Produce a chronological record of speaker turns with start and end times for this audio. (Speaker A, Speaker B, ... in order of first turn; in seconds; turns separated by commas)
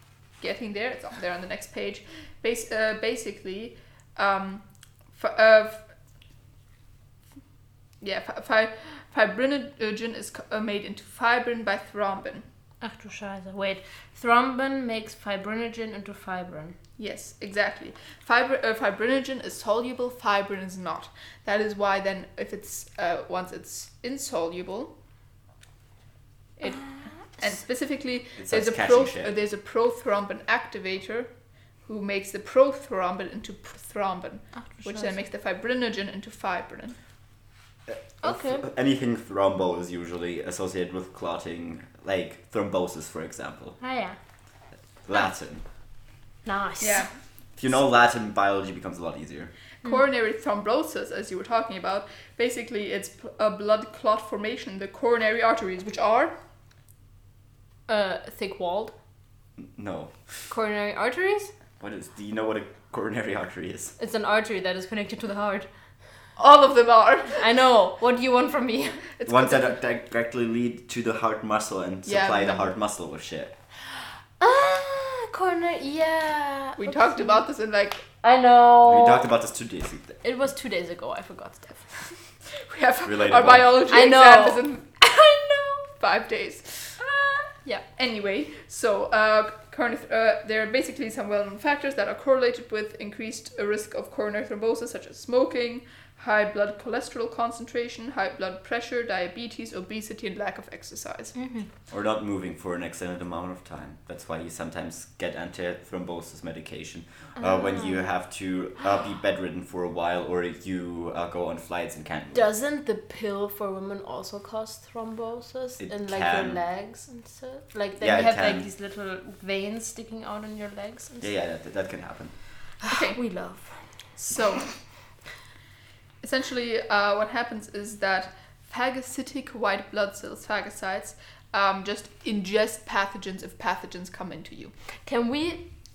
Speaker A: 0.4-5.9, Speaker A: 8.0-12.4, Speaker B: 12.8-16.8, Speaker A: 17.0-24.9, Speaker A: 26.6-31.3, Speaker B: 26.7-27.4, Speaker C: 28.4-29.3, Speaker A: 31.9-37.0, Speaker B: 34.6-35.2, Speaker C: 37.9-43.8, Speaker B: 38.2-38.7, Speaker B: 43.8-44.2, Speaker C: 45.0-45.6, Speaker B: 46.5-47.1, Speaker A: 46.8-47.1, Speaker C: 47.6-49.5, Speaker A: 49.8-56.3, Speaker B: 57.9-58.9, Speaker C: 59.6-60.1, Speaker B: 60.5-61.5, Speaker C: 61.8-64.0, Speaker B: 64.0-65.7, Speaker A: 66.4-67.4, Speaker B: 67.4-69.0, Speaker A: 69.2-69.7, Speaker C: 69.3-73.5, Speaker A: 72.1-72.8, Speaker B: 74.4-77.5, Speaker A: 76.8-78.0, Speaker B: 78.2-79.3, Speaker C: 78.8-80.2, Speaker B: 80.2-82.2, Speaker A: 82.6-87.0, Speaker C: 83.0-83.8, Speaker B: 83.9-84.7, Speaker B: 87.0-87.8, Speaker A: 88.0-101.3, Speaker B: 101.3-101.7, Speaker C: 101.9-112.5, Speaker B: 107.4-108.1, Speaker B: 112.3-121.3, Speaker C: 115.8-116.6, Speaker C: 118.0-118.7, Speaker C: 121.2-122.3, Speaker B: 122.8-123.8, Speaker A: 122.9-123.2, Speaker A: 124.2-124.7, Speaker A: 126.2-134.7, Speaker B: 135.1-135.6